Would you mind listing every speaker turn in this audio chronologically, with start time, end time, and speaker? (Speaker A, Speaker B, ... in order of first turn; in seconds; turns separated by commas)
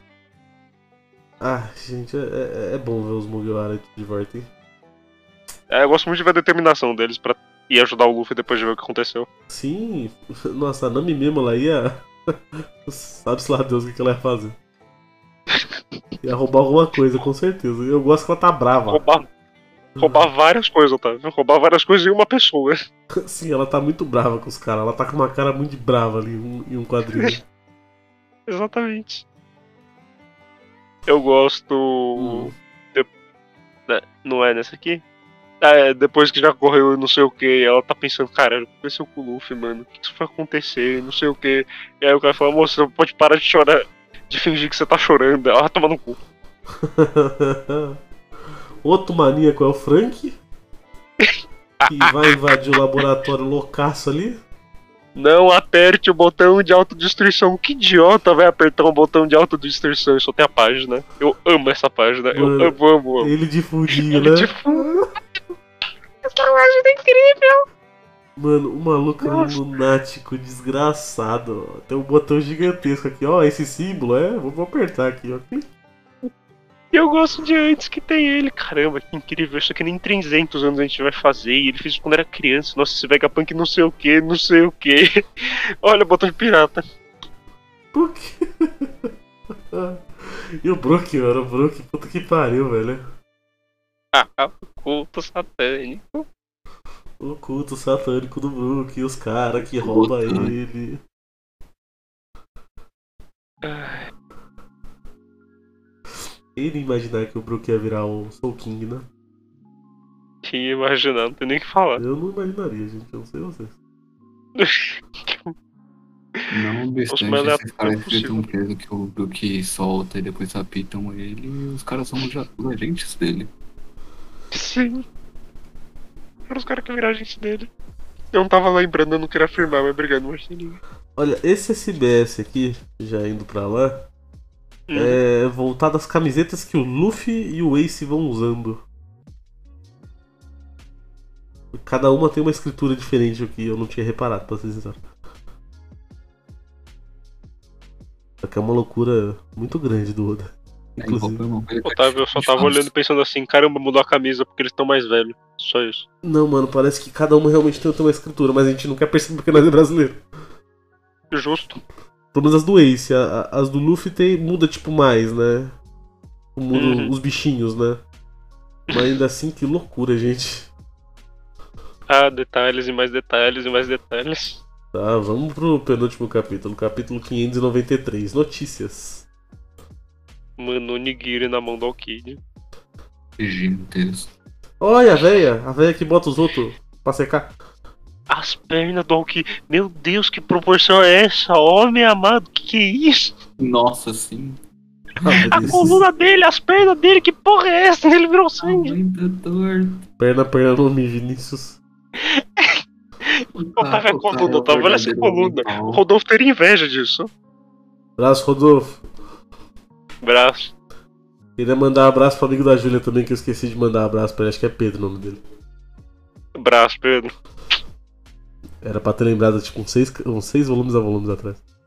Speaker A: 1.4-4.5, Speaker B: 5.7-9.3, Speaker A: 9.5-14.6, Speaker A: 16.2-19.0, Speaker B: 18.9-19.3, Speaker A: 19.9-20.2, Speaker B: 20.0-22.8, Speaker A: 23.2-27.4, Speaker B: 27.1-27.4, Speaker B: 28.5-29.2, Speaker B: 31.1-33.1, Speaker A: 32.2-32.5, Speaker B: 33.9-35.0, Speaker B: 35.6-46.2, Speaker A: 46.8-48.0, Speaker A: 48.8-50.4, Speaker B: 51.2-51.9, Speaker A: 51.9-54.4, Speaker B: 55.1-63.3, Speaker A: 62.3-65.0, Speaker B: 64.0-64.9, Speaker B: 66.2-67.6, Speaker A: 68.4-75.7, Speaker B: 69.2-69.6, Speaker B: 76.9-86.8, Speaker A: 87.9-89.1, Speaker A: 89.7-93.0, Speaker B: 94.1-96.3, Speaker A: 97.2-101.0, Speaker C: 99.8-100.5, Speaker B: 103.6-104.1, Speaker A: 106.5-109.1, Speaker B: 110.4-112.0, Speaker A: 112.0-113.7, Speaker B: 114.6-115.5, Speaker C: 116.5-123.5, Speaker B: 117.1-118.5, Speaker B: 124.5-125.0, Speaker B: 126.5-127.7, Speaker B: 128.3-130.8, Speaker A: 131.2-134.1, Speaker B: 134.9-135.2, Speaker A: 134.9-138.8, Speaker A: 141.7-145.0, Speaker A: 148.4-150.5, Speaker C: 151.0-152.9, Speaker A: 151.0-151.4, Speaker B: 151.8-156.1, Speaker A: 156.2-160.2, Speaker B: 161.3-161.8, Speaker A: 162.3-165.8, Speaker A: 166.6-168.0, Speaker B: 166.7-167.1, Speaker A: 168.9-170.7, Speaker B: 172.1-174.6, Speaker A: 174.9-179.2, Speaker B: 180.6-182.4, Speaker C: 183.4-184.3, Speaker A: 184.8-187.5, Speaker B: 188.3-193.3, Speaker C: 193.6-194.6, Speaker A: 195.2-196.0, Speaker C: 195.3-195.8, Speaker B: 195.6-198.9, Speaker C: 198.6-200.0, Speaker A: 200.2-201.8, Speaker B: 202.2-207.3, Speaker C: 203.5-206.0, Speaker A: 208.2-209.0, Speaker B: 210.2-210.7, Speaker A: 211.6-215.4, Speaker B: 216.6-217.3, Speaker A: 218.8-221.6